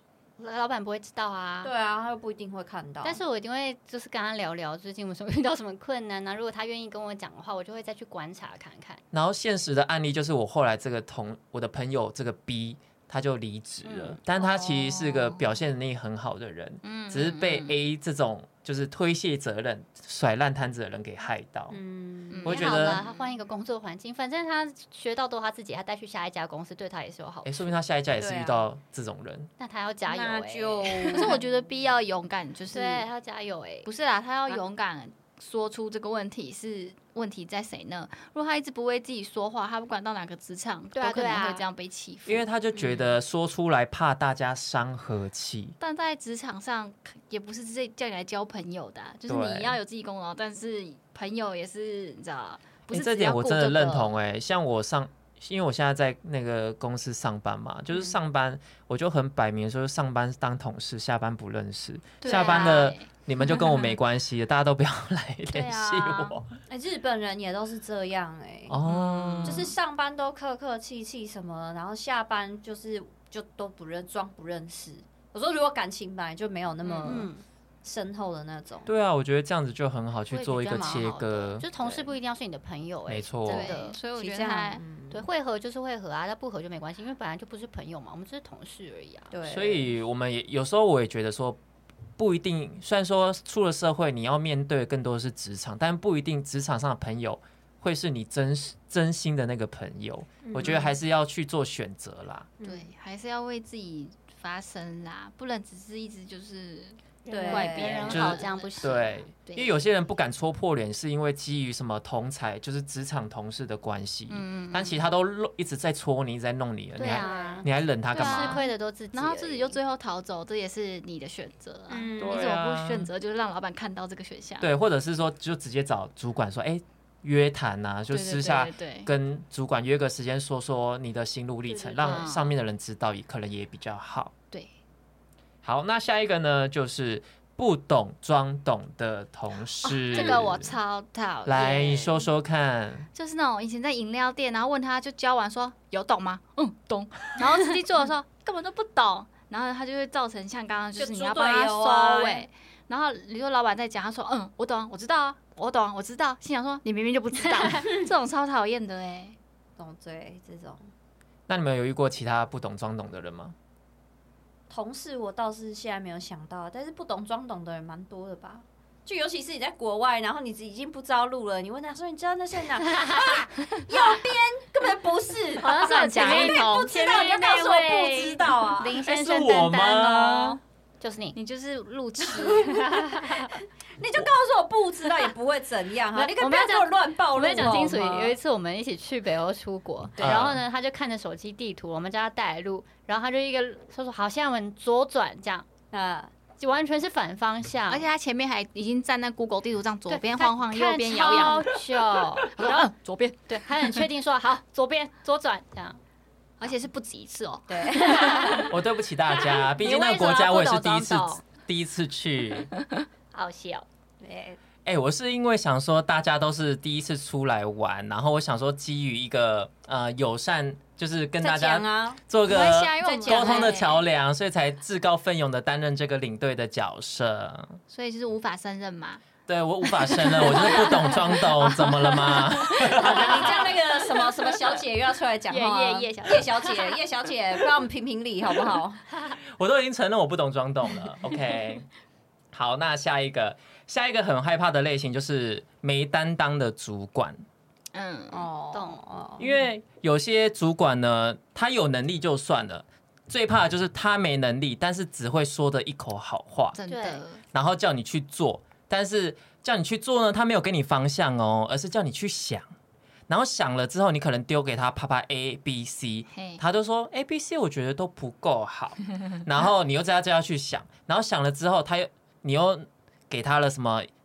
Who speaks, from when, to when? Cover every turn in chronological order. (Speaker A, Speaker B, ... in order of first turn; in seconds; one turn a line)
Speaker A: 0.4-1.7
Speaker B: 1.6-3.2
Speaker A: 3.0-9.0
Speaker C: 9.1-21.8
Speaker B: 13.9-14.7
Speaker D: 14.8-15.4
Speaker D: 16.8-17.7
Speaker B: 21.7-23.0
Speaker D: 22.3-23.3
Speaker C: 22.4-23.0
Speaker A: 22.5-27.7
Speaker C: 27.4-29.5
Speaker B: 28.2-28.6
Speaker A: 29.6-31.4
Speaker B: 30.1-31.7
Speaker D: 31.1-33.1
Speaker A: 32.7-33.9
Speaker D: 33.9-42.4
Speaker A: 41.0-41.6
Speaker C: 42.3-45.8
Speaker B: 42.7-43.1
Speaker D: 45.8-54.2
Speaker C: 49.3-49.8
Speaker C: 52.9-66.5
Speaker B: 57.9-58.2
Speaker D: 62.2-63.9
Speaker A: 62.3-62.9
Speaker D: 65.5-66.4
Speaker B: 66.7-68.8
Speaker C: 68.7-69.7
Speaker D: 68.8-69.7
Speaker B: 69.4-77.3
Speaker D: 76.8-77.3
Speaker A: 77.0-77.4
Speaker B: 77.8-78.9
Speaker C: 78.9-82.1
Speaker A: 80.3-84.0
Speaker C: 83.1-83.7
Speaker D: 83.5-84.8
Speaker B: 83.5-85.3
Speaker A: 85.1-89.3
Speaker B: 89.3-89.9
Speaker C: 89.5-91.6
Speaker C: 92.2-102.5
Speaker B: 100.4-100.9
Speaker B: 102.6-102.9
Speaker D: 102.6-109.0
Speaker A: 107.3-109.2
Speaker B: 107.3-108.3
Speaker C: 108.1-118.6
Speaker D: 109.5-109.7
Speaker D: 114.3-115.0
Speaker A: 117.0-119.8
Speaker B: 117.1-117.7
Speaker D: 118.1-124.7
Speaker B: 121.9-122.5
Speaker C: 122.2-123.1
Speaker C: 124.6-134.3
Speaker D: 128.1-129.1
Speaker B: 131.7-132.3
Speaker D: 132.0-132.5
Speaker C: 135.6-140.8
Speaker D: 139.8-142.2
Speaker C: 141.4-143.1
Speaker D: 143.1-159.4
Speaker B: 151.0-152.5
Speaker A: 157.6-158.0
Speaker B: 159.8-160.8
Speaker C: 161.5-163.6
Speaker B: 164.7-179.0
Speaker A: 172.9-173.4
Speaker A: 175.6-181.4
Speaker D: 175.7-177.0
Speaker C: 179.0-180.6
Speaker D: 181.3-183.0
Speaker B: 182.2-188.4
Speaker A: 186.1-195.7
Speaker B: 190.2-190.5
Speaker C: 190.2-190.6
Speaker B: 195.9-196.3
Speaker A: 196.6-198.1
Speaker D: 197.9-204.1
Speaker A: 200.1-202.7
Speaker A: 203.5-206.0
Speaker D: 206.6-208.7
Speaker B: 207.7-208.7
Speaker C: 208.7-212.7
Speaker B: 209.5-211.0
Speaker D: 209.8-210.4
Speaker A: 213.3-213.9
Speaker B: 214.2-214.6
Speaker C: 214.9-227.8
Speaker B: 221.4-222.2
Speaker D: 222.4-224.0
Speaker B: 223.0-223.8
Speaker D: 227.9-229.2
Speaker C: 229.5-233.7
Speaker D: 229.8-234.8
Speaker B: 232.8-239.0
Speaker D: 235.5-237.0
Speaker C: 239.5-241.9
Speaker C: 242.5-247.4
Speaker D: 247.9-248.5
Speaker B: 248.3-249.5
Speaker A: 248.7-249.0
Speaker C: 249.4-256.8
Speaker D: 256.7-257.4
Speaker A: 256.9-257.2
Speaker C: 257.5-262.7
Speaker C: 263.3-274.1
Speaker D: 266.3-266.6